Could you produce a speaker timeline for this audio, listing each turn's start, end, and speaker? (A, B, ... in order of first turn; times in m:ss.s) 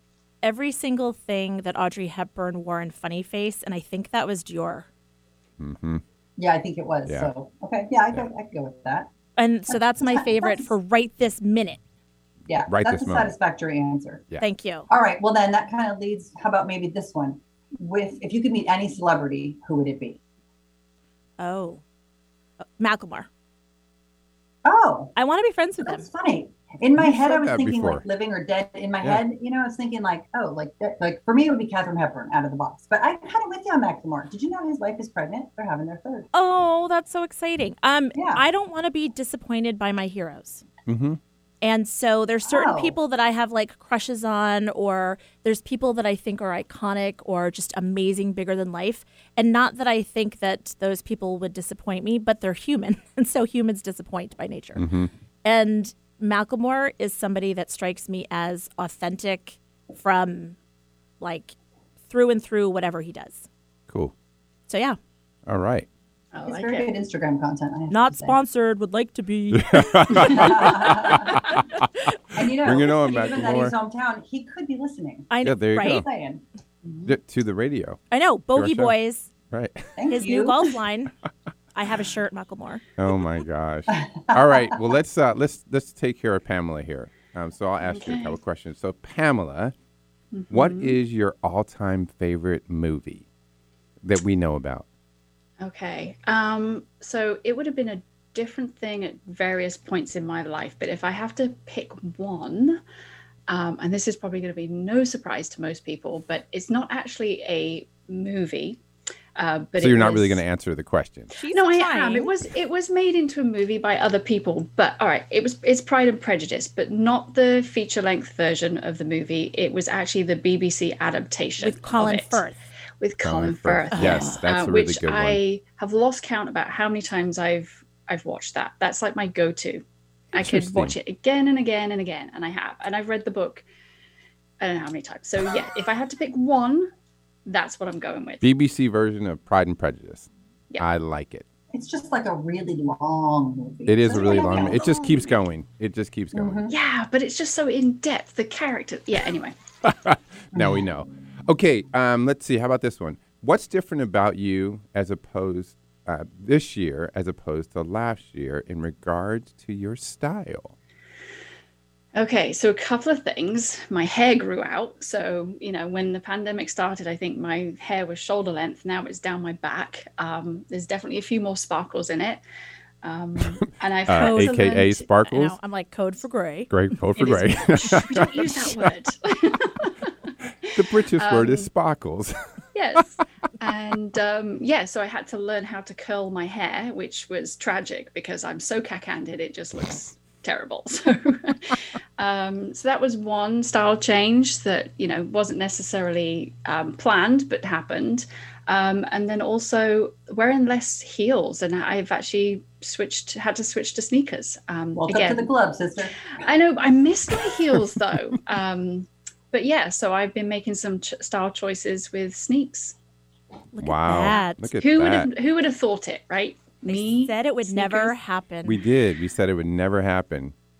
0:00.4-0:04.9 A
0:05.6-0:06.0 B
0:06.4-0:09.1 C
0:09.4-0:11.8 A
0:09.7-0:10.7 C
0:12.5-0:14.2 C
0:12.7-0:13.3 B
0:14.4-0:14.9 A
0:14.9-0:20.2 C
0:21.4-0:21.8 A
0:22.6-0:23.3 A
0:24.6-0:25.1 C
0:25.2-0:26.1 A
0:25.8-0:36.3 C
0:27.0-0:28.0 B
0:36.3-0:40.6 A
0:38.2-0:38.4 C
0:40.9-0:41.2 B
0:41.6-0:54.9 A
0:42.4-0:43.0 C
0:54.8-0:55.1 B
0:55.4-1:00.6 A
1:01.2-1:01.6 A
1:02.1-1:03.5 A
1:04.7-1:05.0 A
1:05.5-1:05.9 B
1:06.3-1:06.9 D
1:06.4-1:08.4 C
1:07.9-1:11.3 A
1:09.5-1:11.4 B
1:10.1-1:11.4 C
1:12.3-1:16.4 C
1:12.6-1:13.7 B
1:15.3-1:16.1 A
1:15.4-1:16.1 B
1:16.8-1:17.2 D
1:17.1-1:18.0 B
1:18.1-1:19.3 A
1:18.6-1:18.9 B
1:19.5-1:19.9 B
1:20.0-1:20.7 C
1:20.1-1:21.1 A
1:21.8-1:22.8 A
1:23.0-1:29.7 B
1:23.9-1:24.8 C
1:27.8-1:28.4 D
1:30.3-1:31.0 D
1:30.5-1:33.2 B
1:34.0-1:34.9 B
1:35.6-1:42.8 D
1:43.5-1:48.8 D
1:49.4-1:50.4 D
1:49.8-1:51.3 B
1:51.3-1:52.3 A
1:51.4-2:02.4 D
2:01.6-2:02.6 A
2:03.0-2:13.6 D
2:03.2-2:05.4 B
2:03.9-2:04.2 A
2:10.4-2:10.9 B
2:14.6-2:16.9 D
2:17.5-2:18.4 D
2:18.4-2:20.3 B
2:20.8-2:21.4 B
2:21.7-2:25.2 C
2:23.9-2:26.6 B
2:24.1-2:25.4 D
2:26.3-2:26.7 C
2:26.7-2:29.5 D
2:29.8-2:40.8 B
2:30.5-2:30.8 C
2:42.2-2:52.4 D
2:53.0-2:55.1 D
2:54.1-2:55.6 B
2:54.2-2:57.4 A
2:56.7-2:58.8 B
2:57.2-3:00.1 D
3:00.6-3:01.7 D
3:00.8-3:02.4 B
3:02.8-3:25.5 D
3:25.0-3:26.4 C
3:26.4-3:33.0 D
3:33.7-3:34.7 A
3:33.8-3:35.3 B
3:34.3-3:38.2 D
3:36.9-3:38.8 A
3:38.6-3:40.5 B